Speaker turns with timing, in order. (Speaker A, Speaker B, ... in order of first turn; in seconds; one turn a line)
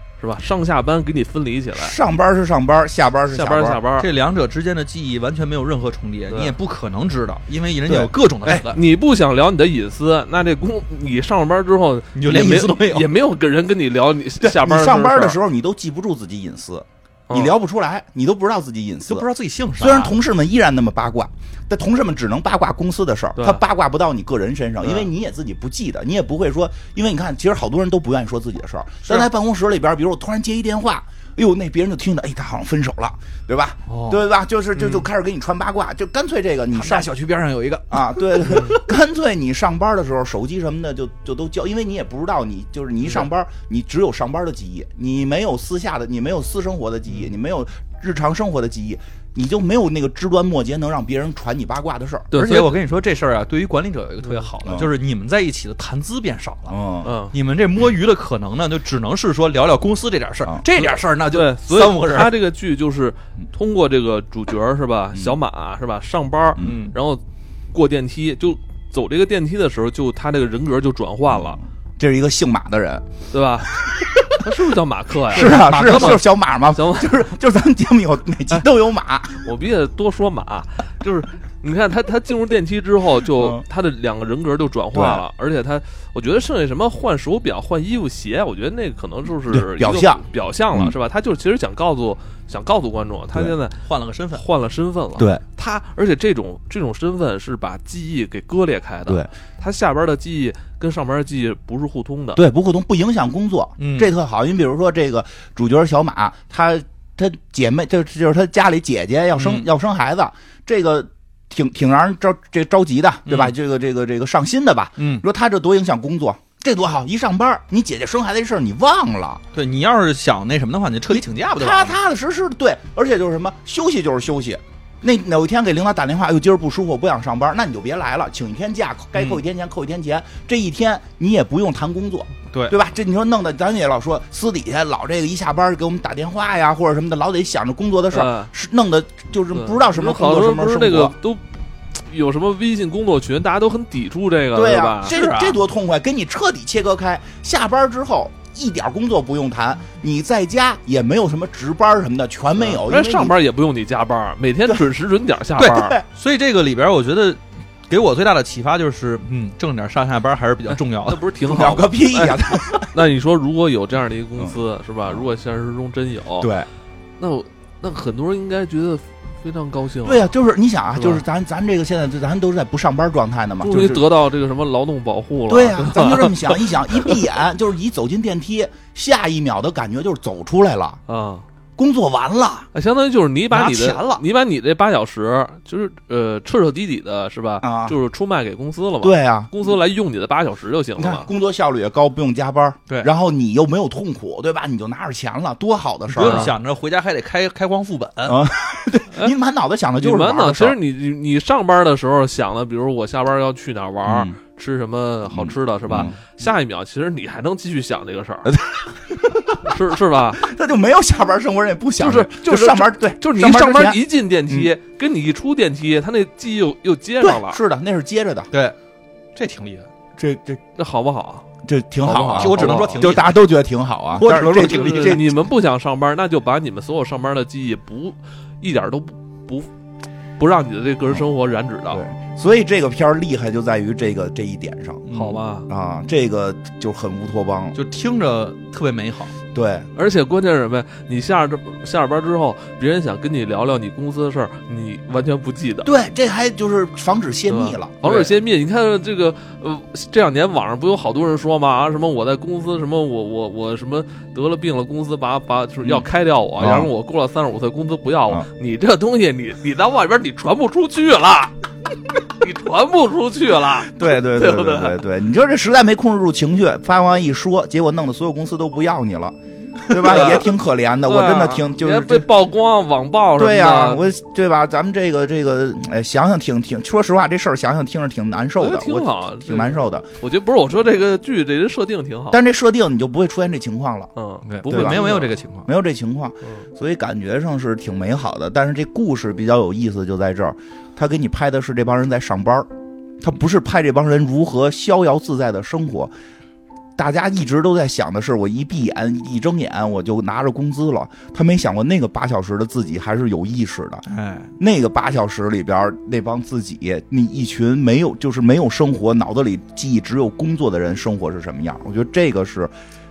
Speaker A: 0.2-2.0
Speaker B: 1.7-3.8
Speaker A: 3.3-4.1
Speaker C: 4.0-8.8
Speaker A: 6.3-6.5
Speaker B: 7.9-8.6
Speaker A: 8.7-15.4
Speaker C: 12.1-13.1
Speaker B: 14.4-19.3
Speaker C: 19.1-20.2
Speaker B: 19.8-37.1
Speaker A: 24.8-25.1
Speaker C: 33.9-34.2
Speaker A: 34.8-35.0
Speaker C: 36.7-38.8
Speaker B: 37.9-52.4
Speaker A: 38.5-38.8
Speaker A: 52.3-52.7
Speaker C: 52.3-56.8
Speaker A: 54.2-54.5
Speaker B: 54.6-54.9
Speaker B: 56.7-57.1
Speaker A: 57.0-57.3
Speaker C: 57.3-62.4
Speaker A: 60.8-71.6
Speaker C: 66.6-67.0
Speaker B: 71.3-73.0
Speaker A: 73.3-77.3
Speaker B: 73.7-74.4
Speaker B: 75.3-79.5
Speaker C: 75.3-76.2
Speaker A: 79.4-93.8
Speaker B: 83.3-83.6
Speaker B: 84.9-85.2
Speaker B: 89.5-90.9
Speaker C: 93.8-94.4
Speaker A: 94.3-102.4
Speaker B: 102.3-119.4
Speaker C: 103.8-104.1
Speaker C: 109.3-109.7
Speaker C: 113.3-113.5
Speaker C: 115.0-115.2
Speaker C: 119.5-122.0
Speaker B: 121.1-141.1
Speaker C: 129.1-129.4
Speaker A: 138.1-138.5
Speaker A: 139.5-145.2
Speaker B: 144.5-153.3
Speaker C: 145.1-145.6
Speaker A: 152.7-156.0
Speaker C: 155.6-161.2
Speaker B: 155.8-156.0
Speaker A: 160.7-166.5
Speaker B: 161.4-162.9
Speaker B: 166.4-166.7
Speaker A: 167.2-170.3
Speaker B: 170.0-174.0
Speaker A: 170.9-171.2
Speaker A: 173.6-177.1
Speaker B: 175.5-181.0
Speaker A: 181.1-181.4
Speaker B: 181.8-182.7
Speaker A: 182.7-191.3
Speaker C: 183.5-184.2
Speaker B: 187.6-187.9
Speaker B: 189.0-189.5
Speaker B: 191.0-196.5
Speaker C: 196.1-198.4
Speaker A: 196.2-196.5
Speaker B: 198.2-200.8
Speaker A: 200.0-208.5
Speaker B: 204.1-204.4
Speaker B: 205.3-206.2
Speaker B: 208.4-209.8
Speaker A: 209.6-210.4
Speaker B: 210.4-214.7
Speaker A: 212.0-217.6
Speaker B: 217.2-218.5
Speaker C: 219.3-219.9
Speaker B: 220.2-220.6
Speaker A: 220.8-221.4
Speaker B: 221.6-225.3
Speaker A: 222.0-223.1
Speaker C: 222.3-223.3
Speaker C: 224.2-225.2
Speaker A: 224.5-229.7
Speaker A: 230.4-232.0
Speaker B: 231.9-235.1
Speaker C: 235.1-235.4
Speaker A: 235.1-235.7
Speaker B: 235.7-237.8
Speaker C: 237.7-239.3
Speaker B: 239.5-239.9
Speaker A: 239.9-245.9
Speaker B: 245.8-248.3
Speaker A: 247.5-261.5
Speaker B: 256.6-256.9
Speaker A: 262.2-265.0
Speaker B: 263.8-272.3
Speaker A: 270.0-270.5
Speaker A: 271.1-274.0
Speaker B: 273.4-280.1
Speaker A: 278.6-282.4
Speaker B: 282.3-284.1
Speaker A: 284.1-285.4
Speaker C: 284.4-285.7
Speaker B: 284.7-285.1
Speaker B: 285.6-292.7
Speaker B: 293.2-296.1
Speaker B: 297.0-304.1
Speaker C: 304.1-304.5
Speaker B: 304.6-312.7